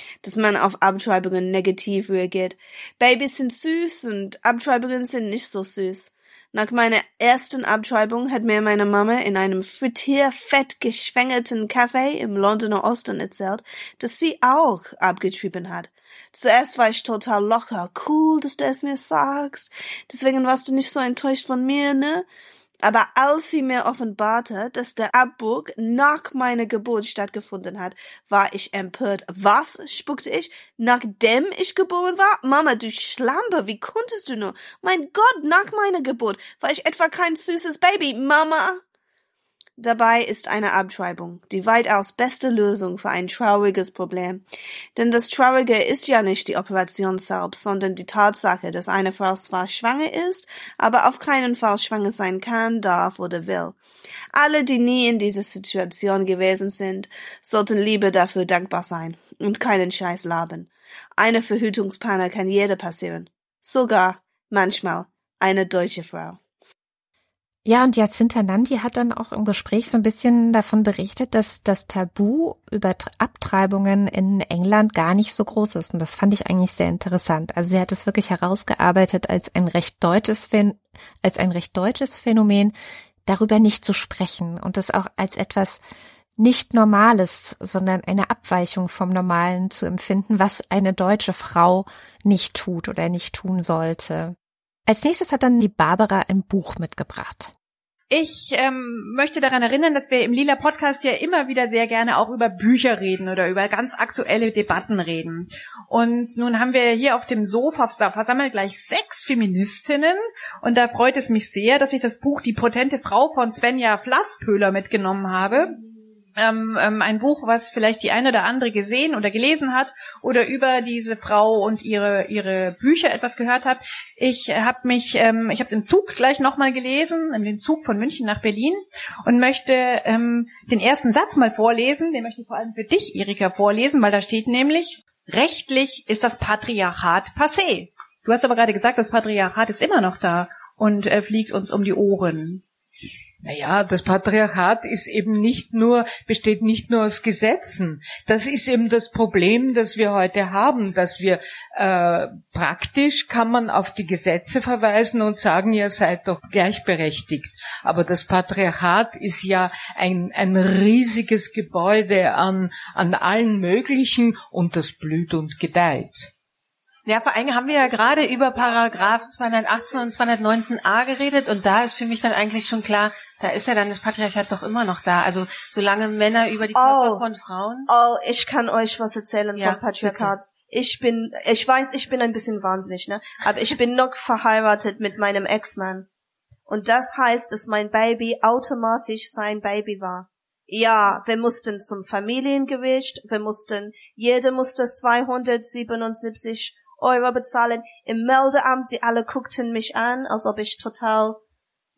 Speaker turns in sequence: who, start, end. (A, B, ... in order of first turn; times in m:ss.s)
0:00.2-0:22.2 A
0:22.8-0:38.8 A
0:39.8-0:44.4 A
0:45.0-0:53.7 A
0:54.3-1:00.7 A
1:01.2-1:06.4 A
1:07.6-1:22.7 B
1:23.2-1:25.8 B
1:26.4-1:34.3 B
1:34.9-1:37.5 B
1:38.1-1:55.7 C
1:56.4-2:22.6 C
2:23.4-2:46.3 D
2:47.0-2:57.9 E
2:56.7-2:57.2 A
2:57.9-3:06.1 A
2:59.6-3:00.3 E
3:06.7-3:21.4 A